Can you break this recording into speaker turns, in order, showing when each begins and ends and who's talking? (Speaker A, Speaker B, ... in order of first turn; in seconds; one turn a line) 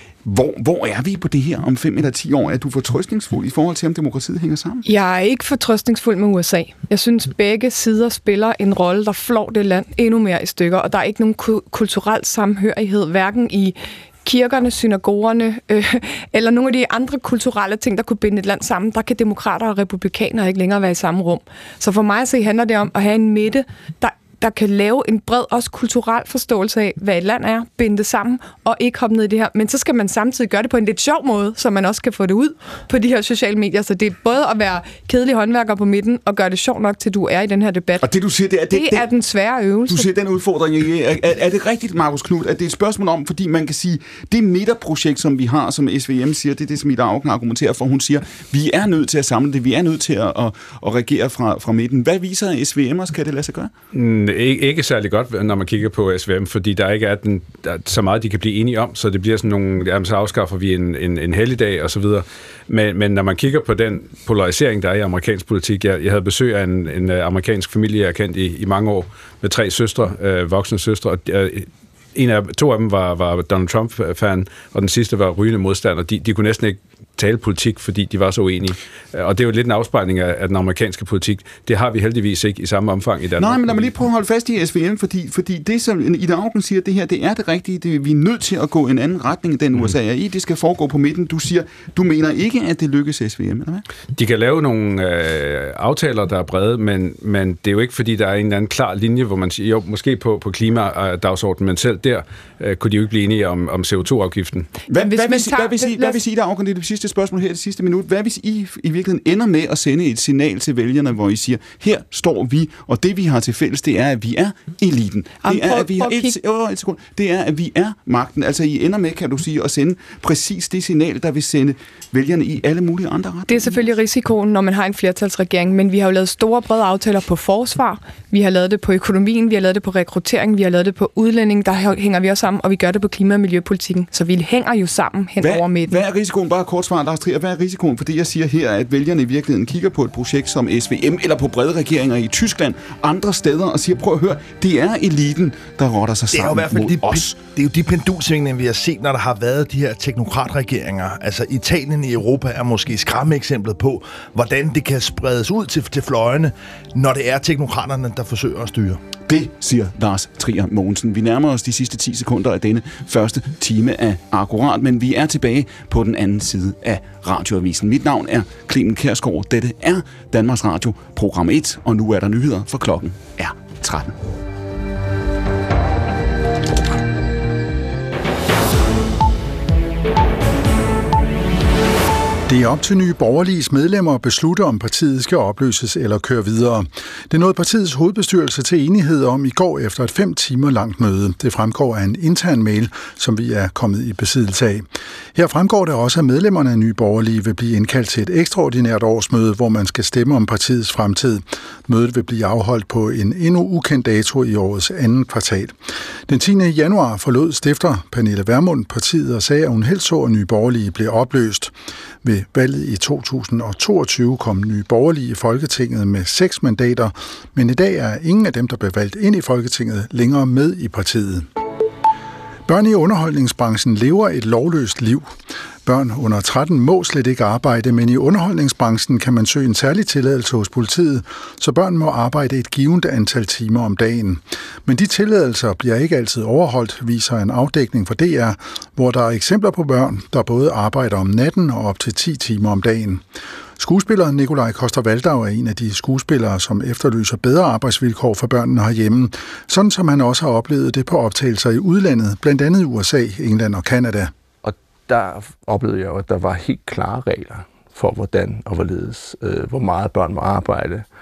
Speaker A: 0.2-4.8
Speaker B: 4.8-38.0
Speaker A: 38.0-39.0
Speaker B: 38.7-40.1
Speaker A: 39.9-53.7
Speaker C: 53.9-83.9
Speaker A: 83.4-93.8
Speaker C: 94.1-104.7
Speaker A: 104.9-123.8
Speaker B: 105.0-106.2
Speaker B: 115.4-116.3
Speaker B: 123.5-136.0
Speaker A: 135.4-147.4
Speaker D: 146.3-159.0
Speaker A: 159.3-174.1
Speaker E: 182.5-205.8
Speaker E: 206.3-221.5
Speaker E: 222.7-225.3
Speaker E: 225.8-243.2
Speaker E: 243.8-254.3
Speaker F: 254.6-261.1